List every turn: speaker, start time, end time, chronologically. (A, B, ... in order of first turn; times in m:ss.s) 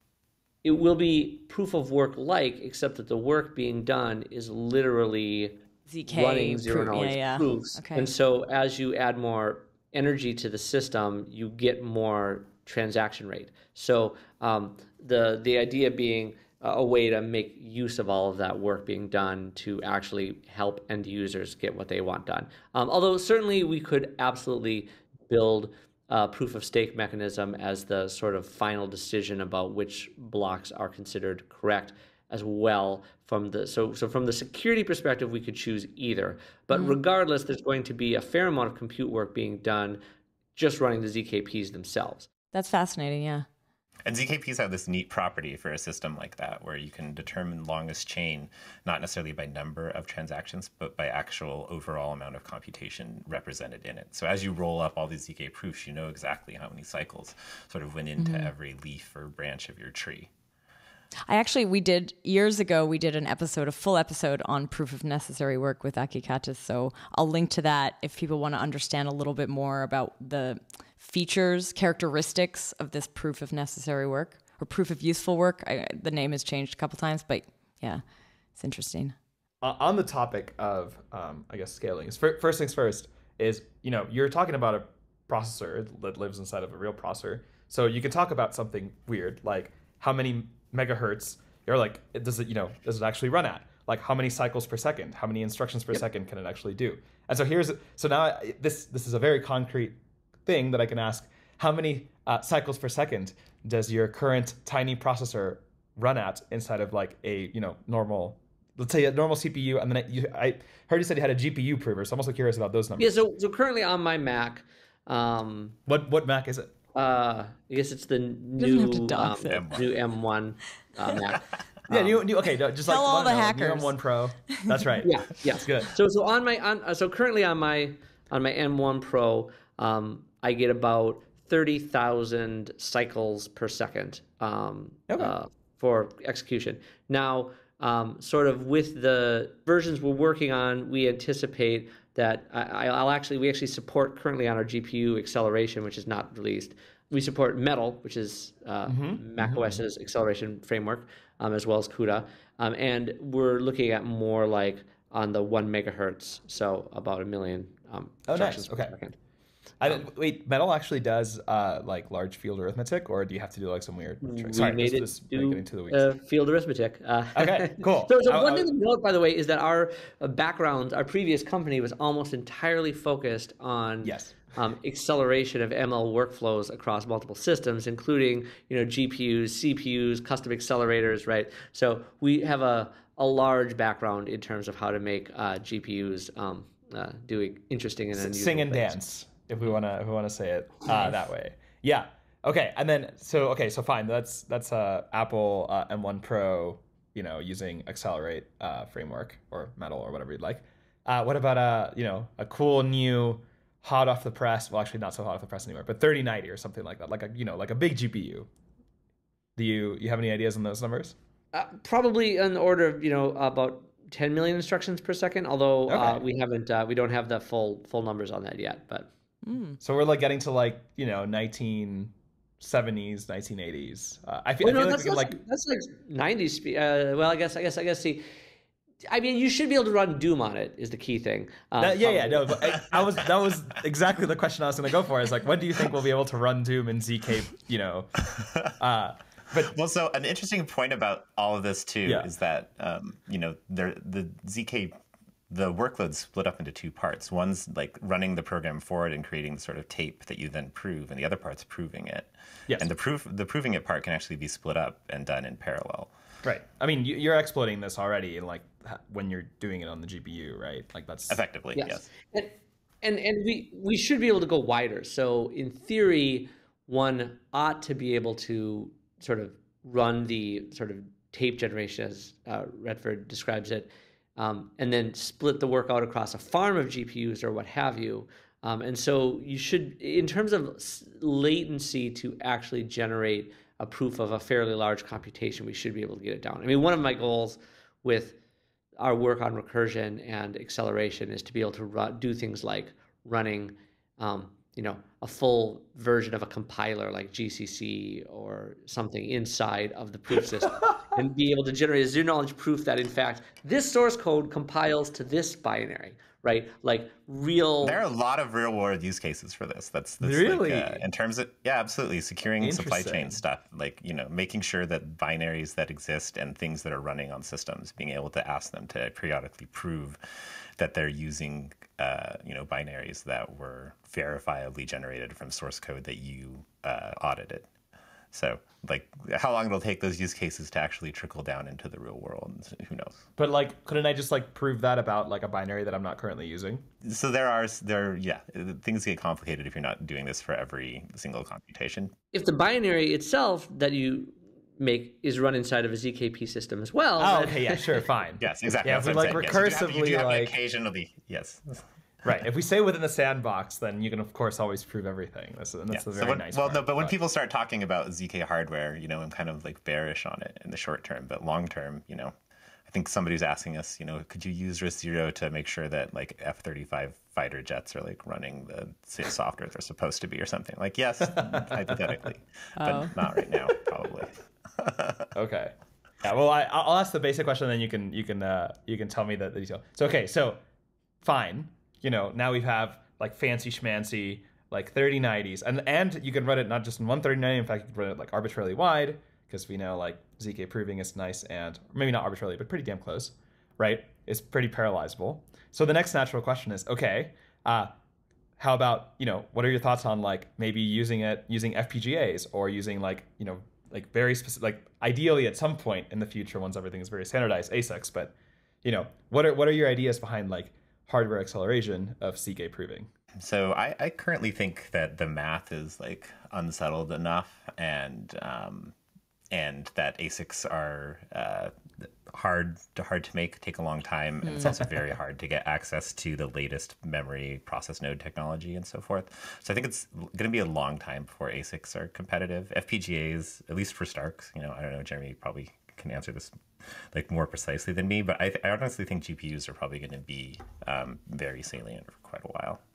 0:00.6-0:40.0 A
0:05.9-0:08.1 B
0:40.6-0:42.3 A
0:42.5-0:43.5 B
0:44.1-1:00.3 C
0:58.2-0:58.5 B
1:01.3-1:18.0 B
1:18.6-1:19.2 B
1:19.6-1:53.1 D
1:53.0-1:55.8 A
1:55.9-1:56.7 D
1:56.9-2:01.5 A
1:58.6-1:59.7 B
1:59.5-1:59.9 C
2:01.9-2:05.9 D
2:02.9-2:04.0 B
2:05.0-2:39.2 A
2:15.1-2:15.3 D
2:28.9-2:29.8 D
2:38.3-2:39.0 D
2:39.8-2:46.1 D
2:44.2-3:09.0 A
2:47.4-2:48.7 D
2:54.0-2:54.4 D
3:08.2-3:28.5 D
3:29.6-3:31.2 D
3:31.5-3:39.1 A
3:35.9-3:36.2 D
3:39.4-3:39.8 B
3:39.8-3:45.4 D
3:44.6-3:48.2 A
3:49.1-3:52.8 A
3:51.8-3:59.8 D
3:58.4-3:58.7 C
3:59.7-4:05.0 C
4:02.0-4:02.3 D
4:05.5-4:16.1 C
4:16.4-4:21.4 D
4:21.3-4:22.0 C
4:21.8-4:48.4 A
4:49.0-5:08.0 A
5:07.8-5:20.2 C
5:10.2-5:11.0 D
5:12.6-5:13.4 D
5:20.8-5:27.7 C
5:28.3-5:33.3 C
5:33.4-5:36.9 D
5:37.0-5:42.2 C
5:42.3-5:48.0 A
5:47.2-5:50.6 D
5:48.4-5:51.8 C
5:52.2-5:57.2 D
5:55.9-6:02.3 C
6:02.9-6:15.3 C
6:11.4-6:11.8 D
6:12.8-6:13.2 B
6:15.3-6:20.6 D
6:21.2-6:37.9 D
6:38.6-6:53.1 D
6:53.4-6:59.0 C
6:59.5-7:22.8 C